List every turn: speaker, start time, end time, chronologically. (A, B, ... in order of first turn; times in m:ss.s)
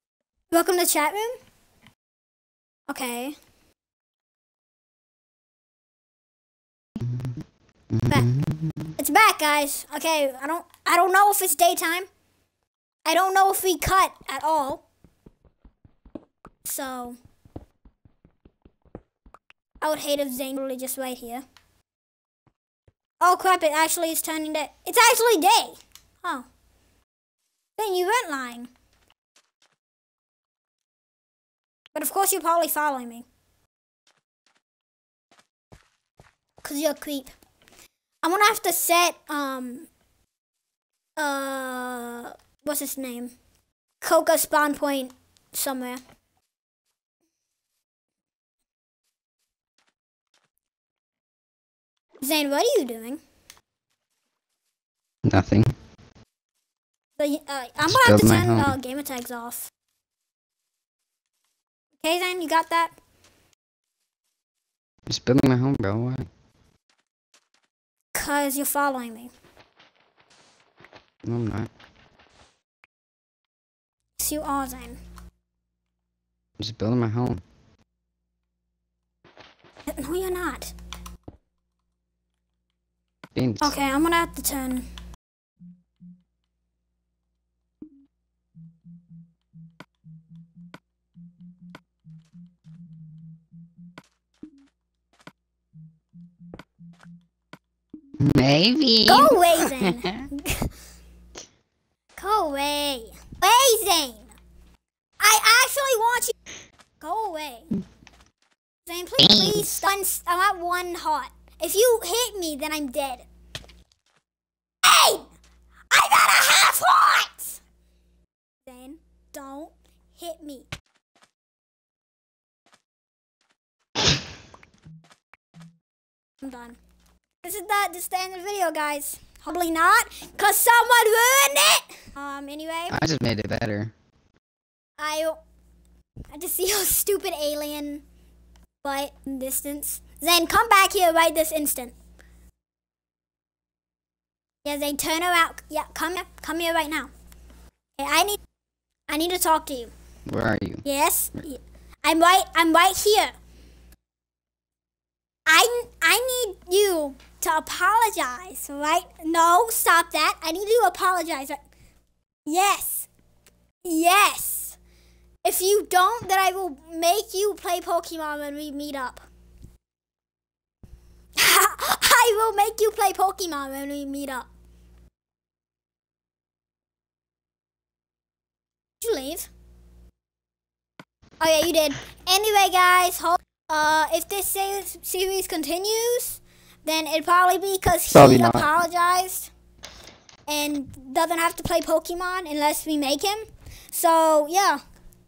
0:00.5-0:01.4 A
0:02.9-0:03.4 A
0:07.0-0:08.9 B
0:09.0-0:12.1 A
0:13.0-0:14.8 A
0:16.6-0:17.2 A
0:19.8-0:21.4 A
0:23.2-0:26.5 A
0:27.8-0:28.7 A
0:31.9-0:33.2 A
0:36.6-0:37.4 A
0:38.2-0:39.9 A
0:41.2-0:43.3 A
0:44.0-0:46.0 A
0:52.2-0:53.2 A
0:55.2-0:55.7 B
0:57.2-0:59.7 A
0:57.9-0:58.8 B
1:02.0-1:02.9 A
1:05.1-1:06.3 B
1:08.1-1:09.3 A
1:11.2-1:11.7 B
1:14.2-1:15.0 A
1:16.6-1:17.4 B
1:19.9-1:20.7 A
1:23.3-1:23.7 B
1:23.6-1:24.9 A
1:38.2-1:40.2 B
1:39.1-1:40.7 A
1:42.2-1:44.3 A
1:45.2-1:46.3 A
1:47.0-1:47.7 A
1:48.9-1:53.2 A
1:49.2-1:49.8 B
1:54.8-1:55.3 A
1:55.9-1:57.6 A
1:58.6-2:00.7 A
2:06.4-2:06.8 A
2:07.4-2:13.0 A
2:12.9-2:13.9 B
2:15.0-2:15.4 A
2:16.3-2:18.0 A
2:18.8-2:21.9 A
2:24.6-2:27.1 A
2:28.0-2:28.4 A
2:29.1-2:29.9 A
2:30.3-2:30.8 B
2:30.8-2:33.3 A
2:35.5-2:41.6 A
2:42.5-2:43.1 A
2:43.8-2:44.8 A
2:45.4-2:49.2 A
2:51.4-2:54.5 A
2:59.0-2:59.5 A
3:01.4-3:09.5 A
3:08.1-3:08.7 B
3:10.5-3:14.8 A